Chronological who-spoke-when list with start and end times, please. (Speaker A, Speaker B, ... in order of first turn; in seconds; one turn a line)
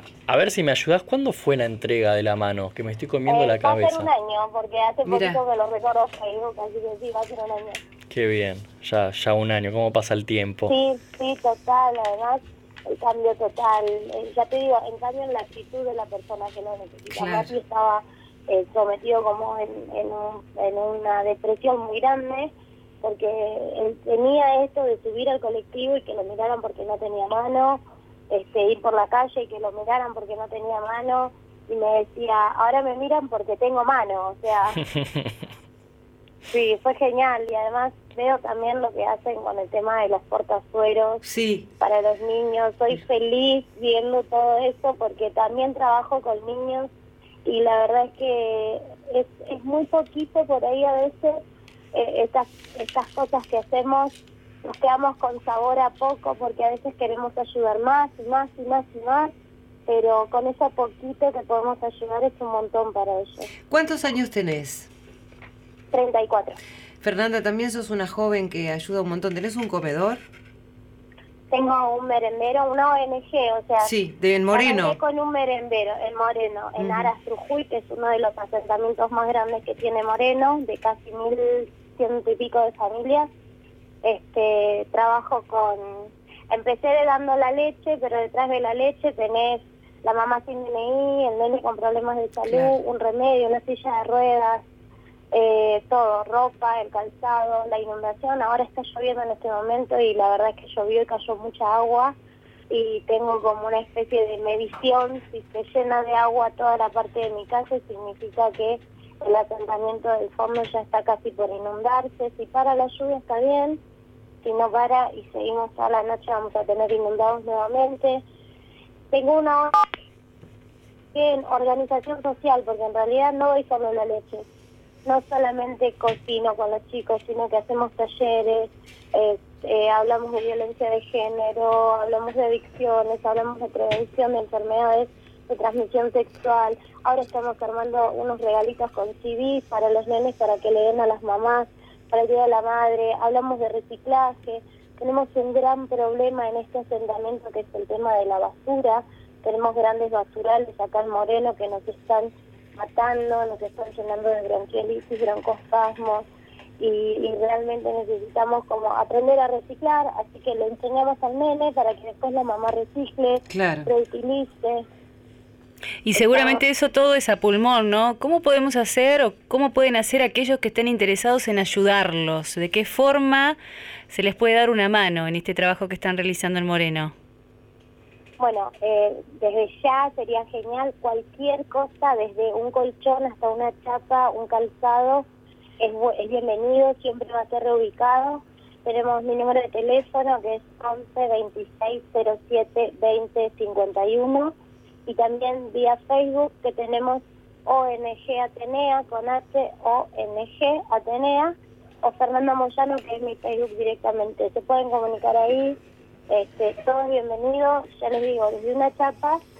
Speaker A: 0.3-4.1
Speaker B: 3.3-7.8
Speaker C: 5.0-5.4
Speaker A: 8.1-10.7
Speaker B: 10.7-34.8
Speaker C: 17.1-17.5
Speaker B: 36.5-41.2
Speaker C: 41.2-41.7
Speaker B: 41.8-46.9
Speaker B: 47.5-51.4
Speaker B: 51.9-59.3
Speaker B: 59.9-63.5
Speaker C: 63.7-64.9
Speaker B: 65.9-66.6
Speaker C: 67.0-70.2
Speaker B: 71.5-73.9
Speaker C: 73.8-75.0
Speaker B: 74.5-83.3
Speaker C: 76.8-77.1
Speaker B: 84.0-94.6
Speaker C: 92.5-92.8
Speaker B: 95.3-102.1
Speaker B: 102.7-113.8
Speaker B: 114.4-118.2
Speaker B: 119.1-119.7
Speaker B: 121.1-124.4
Speaker B: 125.0-156.3
Speaker B: 156.8-164.8
Speaker C: 163.5-163.9
Speaker D: 166.0-173.6
Speaker D: 174.1-177.1
Speaker B: 178.4-185.2
Speaker B: 185.8-194.5
Speaker B: 195.1-205.8
Speaker B: 206.3-209.4